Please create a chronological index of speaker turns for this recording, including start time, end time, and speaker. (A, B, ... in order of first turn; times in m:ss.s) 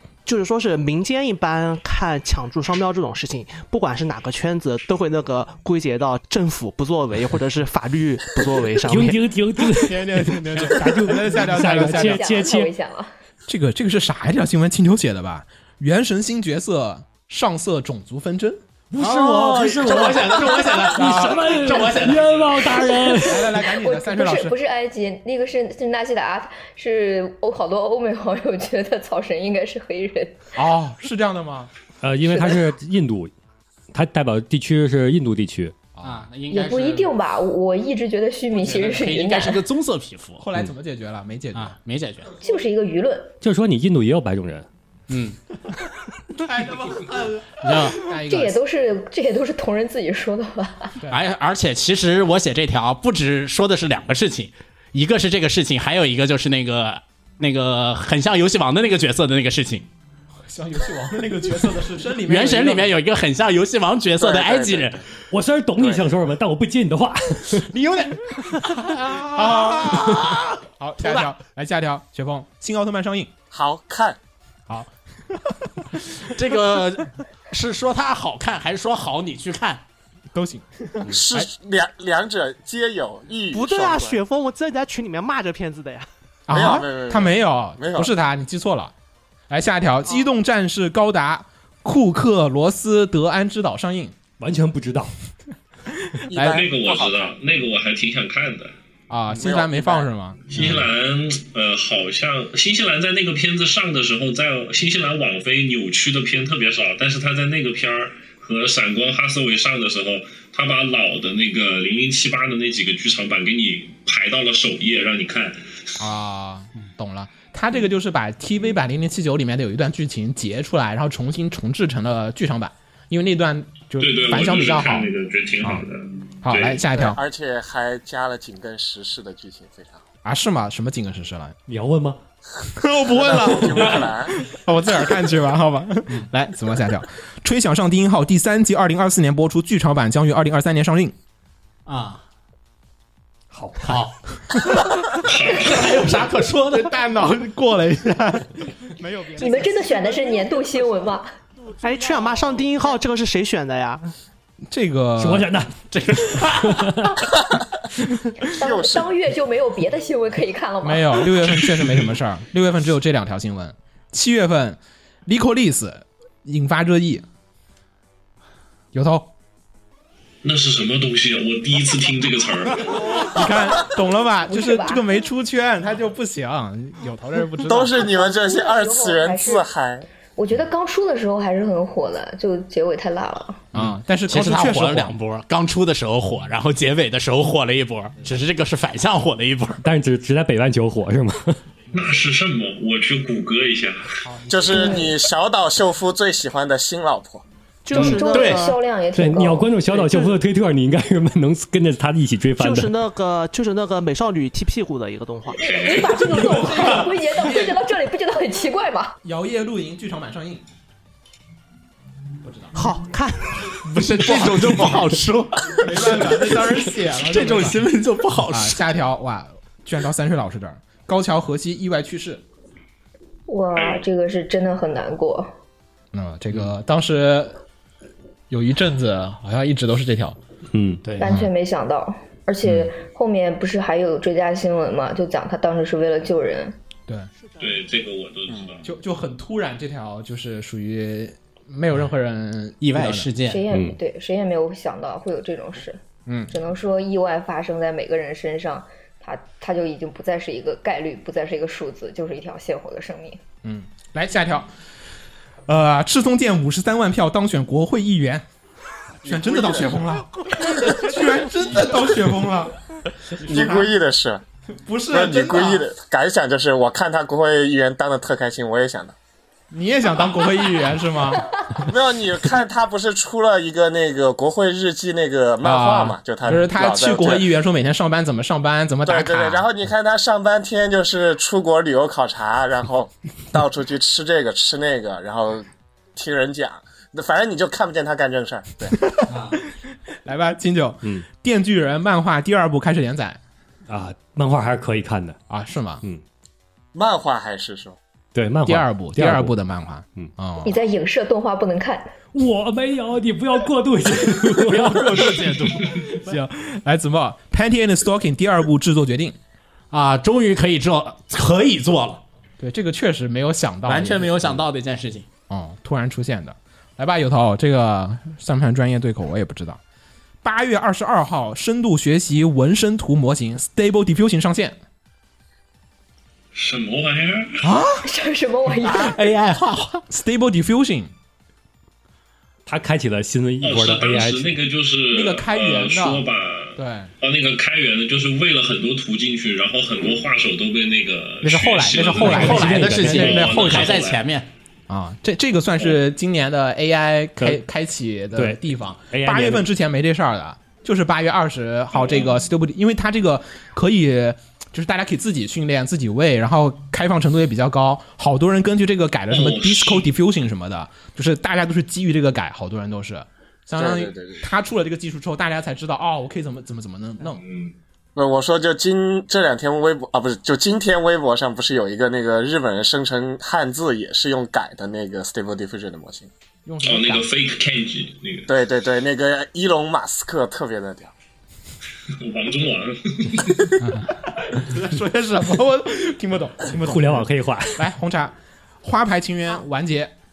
0:00.3-0:09.2 A
0:08.8-0:12.7 B
0:09.7-0:12.3 C
0:11.6-0:13.1 D
0:13.5-0:18.6 C
0:18.9-0:22.6 E
0:19.0-0:23.5 B
0:20.9-0:21.6 C
0:22.9-0:30.4 D
0:23.2-0:24.6 C
0:30.6-0:31.7 C
0:32.0-0:33.3 B
0:33.9-0:35.8 B
0:36.0-0:36.2 C
0:36.0-0:37.1 E
0:36.5-0:39.6 D
0:38.6-0:40.4 E
0:40.4-0:41.8 C
0:41.5-0:42.3 E
0:42.4-0:43.3 D
0:43.4-0:44.7 B
0:45.1-0:45.4 E
0:46.4-0:48.6 C
0:47.6-0:48.0 E
0:48.3-0:51.0 D
0:51.1-0:59.9 E
1:00.5-1:03.0 C
1:02.2-1:05.0 E
1:04.2-1:05.0 F
1:05.3-1:07.7 B
1:05.8-1:06.0 F
1:07.7-1:10.5 E
1:09.0-1:13.3 C
1:11.0-1:11.3 E
1:13.5-1:14.2 F
1:14.7-1:15.7 C
1:16.2-1:19.8 E
1:20.3-1:21.5 C
1:21.1-1:24.2 F
1:23.5-1:26.1 A
1:26.5-1:28.9 C
1:26.5-1:28.1 F
1:29.5-1:34.2 C
1:34.4-1:35.1 B
1:36.3-1:37.3 F
1:36.3-1:36.6 C
1:36.4-1:38.7 G
1:39.1-1:40.4 C
1:39.3-1:40.1 F
1:40.5-1:55.8 G
1:40.6-1:40.9 B
1:56.0-2:05.1 C
2:04.0-2:06.8 G
2:06.4-2:07.2 C
2:06.9-2:10.0 F
2:10.2-2:11.6 C
2:11.7-2:12.2 B
2:12.8-2:21.1 C
2:13.1-2:14.4 F
2:21.9-2:22.2 E
2:23.5-2:24.0 B
2:23.8-2:24.2 E
2:25.2-2:26.0 G
2:25.5-2:26.9 E
2:26.7-2:29.9 C
2:29.4-2:31.3 D
2:31.8-2:34.1 A
2:34.7-2:35.5 C
2:35.2-2:35.8 B
2:35.9-2:36.9 E
2:36.4-2:37.2 B
2:38.6-2:41.4 D
2:38.6-2:39.1 F
2:40.8-2:47.2 C
2:48.9-2:49.3 C
2:50.4-2:53.1 G
2:53.2-2:58.0 C
2:54.5-2:55.0 D
2:57.6-3:00.1 F
2:58.0-2:59.7 D
3:00.4-3:03.7 D
3:03.7-3:05.1 C
3:04.3-3:09.8 E
3:09.8-3:11.6 B
3:11.9-3:14.2 G
3:14.2-3:15.0 C
3:14.5-3:17.4 F
3:14.7-3:15.1 D
3:17.8-3:18.8 A
3:17.9-3:18.7 E
3:17.9-3:19.7 D
3:19.1-3:22.9 B
3:19.9-3:20.4 A
3:22.6-3:25.7 A
3:25.6-3:26.4 G
3:25.6-3:29.2 D
3:26.2-3:27.8 C
3:29.2-3:30.6 C
3:32.4-3:32.9 C
3:32.7-3:33.6 A
3:33.7-3:38.8 E
3:34.3-3:34.6 A
3:35.8-3:37.8 C
3:38.5-3:42.4 C
3:43.5-3:45.5 D
3:43.8-3:44.0 G
3:46.1-3:47.6 C
3:48.5-3:50.4 C
3:50.7-3:51.1 B
3:51.2-3:56.8 D
3:52.6-3:52.9 C
3:57.4-3:57.8 A
3:57.6-3:58.9 G
3:58.5-3:58.8 F
3:58.8-4:03.3 C
4:02.8-4:03.6 E
4:03.4-4:13.4 D
4:03.7-4:04.0 B
4:06.3-4:06.5 C
4:13.6-4:14.7 C
4:15.7-4:18.4 C
4:19.2-4:22.8 C
4:19.3-4:20.0 F
4:23.4-4:23.9 C
4:23.4-4:24.4 F
4:24.8-4:25.9 C
4:25.1-4:29.2 F
4:29.7-4:31.5 C
4:31.8-4:37.5 F
4:35.6-4:39.7 C
4:39.0-4:49.0 F
4:49.0-4:49.3 C
4:49.3-4:49.6 E
4:50.3-4:53.4 C
4:53.9-4:55.4 B
4:55.5-4:56.0 C
4:56.9-4:58.0 F
4:58.4-4:59.5 B
4:58.7-5:00.8 C
5:00.6-5:02.1 D
5:02.3-5:05.5 B
5:04.6-5:06.0 E
5:06.2-5:09.4 C
5:09.9-5:12.2 E
5:12.6-5:14.6 C
5:13.8-5:15.3 E
5:15.5-5:19.8 C
5:20.4-5:24.8 C
5:26.5-5:27.6 G
5:28.0-5:29.2 D
5:28.8-5:30.0 E
5:30.1-5:31.1 C
5:32.7-5:34.4 B
5:33.6-5:44.2 G
5:33.8-5:34.3 E
5:35.1-5:36.2 C
5:36.8-5:37.1 C
5:41.4-5:43.9 C
5:42.2-5:43.6 B
5:42.2-5:44.5 E
5:44.9-6:07.4 C
5:48.4-5:49.7 B
5:59.3-6:00.1 G
6:03.8-6:04.5 F
6:07.2-6:07.7 G
6:08.2-6:16.3 F
6:16.6-6:17.3 C
6:16.8-6:18.5 G
6:18.5-6:21.1 F
6:22.1-6:23.7 G
6:23.8-6:24.1 E
6:24.4-6:30.1 C
6:26.8-6:27.8 B